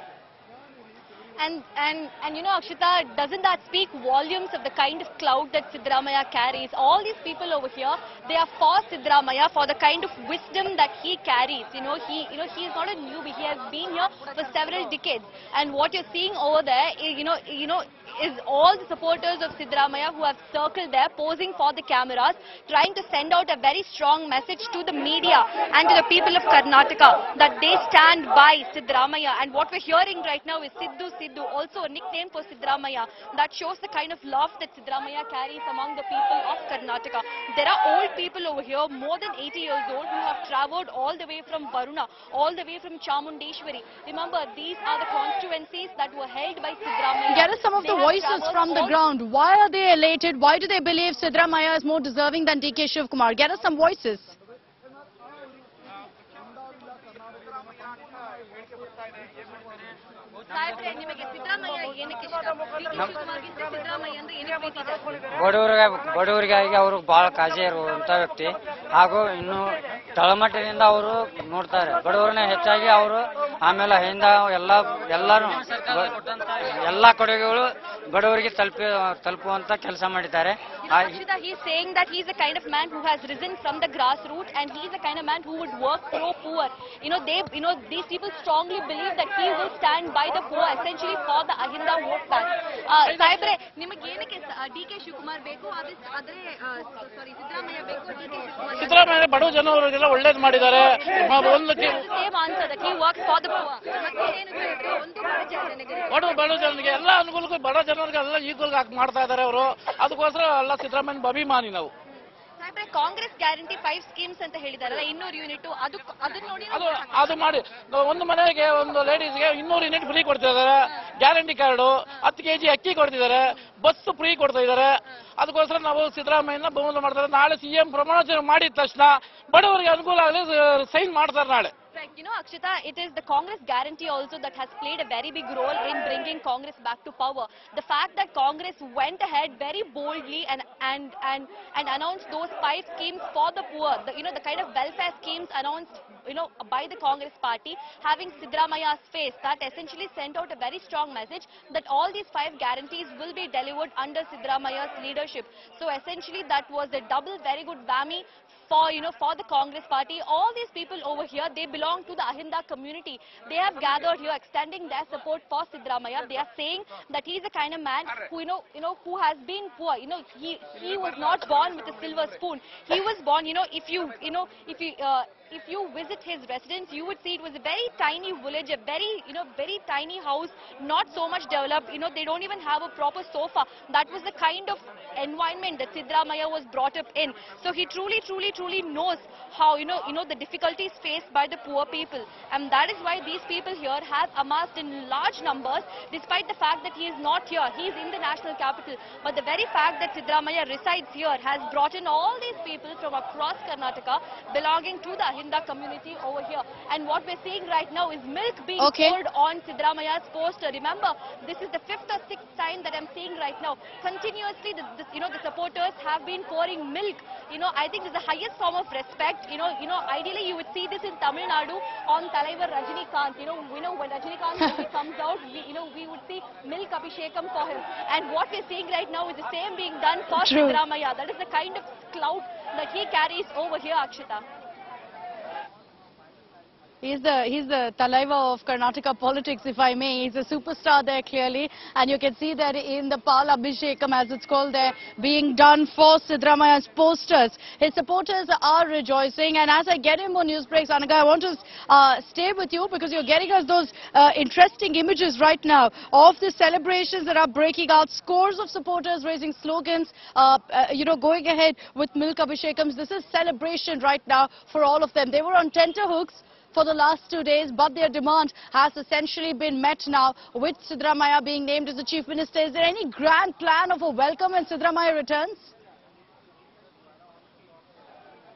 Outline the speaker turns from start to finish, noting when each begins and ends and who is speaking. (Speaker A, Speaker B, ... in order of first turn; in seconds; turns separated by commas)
Speaker A: 1.4-49.0, Speaker B: 47.3-54.4, Speaker A: 60.5-65.1, Speaker C: 65.3-81.2, Speaker A: 80.8-99.3, Speaker D: 93.1-93.5, Speaker D: 98.8-102.0, Speaker A: 101.3-107.0, Speaker D: 106.1-111.9, Speaker A: 112.6-117.6, Speaker D: 116.7-131.7, Speaker A: 131.9-234.4, Speaker B: 208.8-209.2, Speaker B: 230.4-230.8, Speaker B: 237.0-275.8